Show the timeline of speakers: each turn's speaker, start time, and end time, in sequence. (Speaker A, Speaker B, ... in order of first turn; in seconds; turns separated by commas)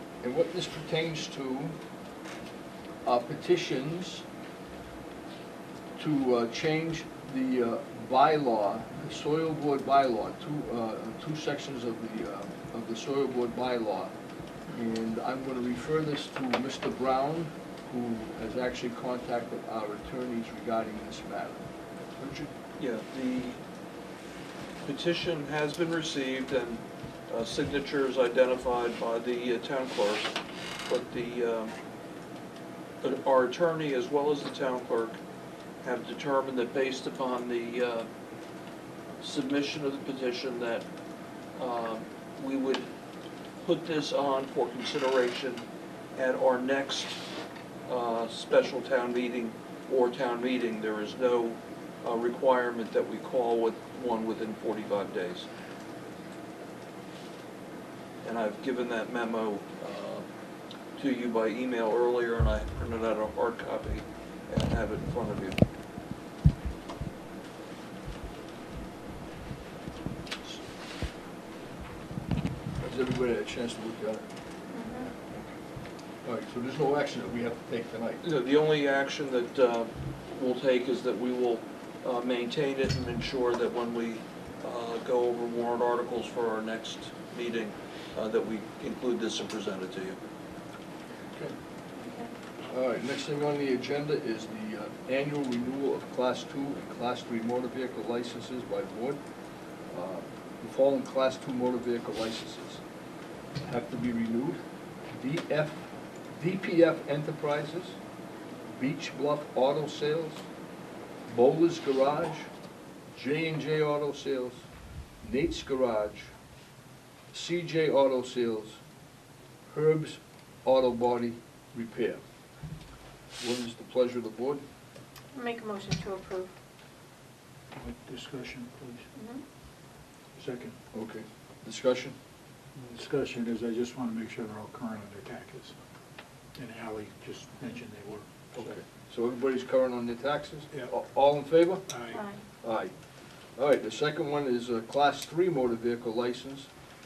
Speaker A: 0.2-1.8, Speaker A: 3.0-4.2, Speaker A: 6.0-14.1, Speaker A: 14.7-21.6, Speaker A: 22.2-22.5, Speaker B: 22.8-23.6, Speaker B: 24.8-30.4, Speaker B: 30.9-31.7, Speaker B: 33.0-35.2, Speaker B: 35.8-38.1, Speaker B: 39.2-40.9, Speaker B: 41.5-42.9, Speaker B: 43.6-47.2, Speaker B: 47.9-55.5, Speaker B: 58.2-60.2, Speaker B: 61.0-65.6, Speaker A: 72.8-74.3, Speaker C: 74.7-75.1, Speaker A: 75.0-75.5, Speaker A: 76.2-78.2, Speaker B: 78.2-90.2, Speaker C: 92.0-92.3, Speaker A: 92.7-99.2, Speaker A: 99.9-102.8, Speaker A: 103.6-108.0, Speaker A: 108.7-110.5, Speaker A: 111.3-112.5, Speaker A: 113.1-114.7, Speaker A: 115.2-116.3, Speaker A: 117.3-118.8, Speaker A: 119.7-122.2, Speaker A: 123.4-124.6, Speaker C: 125.3-126.5, Speaker D: 127.7-129.0, Speaker C: 129.1-129.4, Speaker D: 130.3-130.8, Speaker A: 130.9-132.2, Speaker D: 132.8-135.7, Speaker D: 136.6-138.3, Speaker A: 138.5-141.8, Speaker D: 141.9-142.2, Speaker C: 142.1-142.4, Speaker A: 142.6-142.9, Speaker A: 143.6-146.7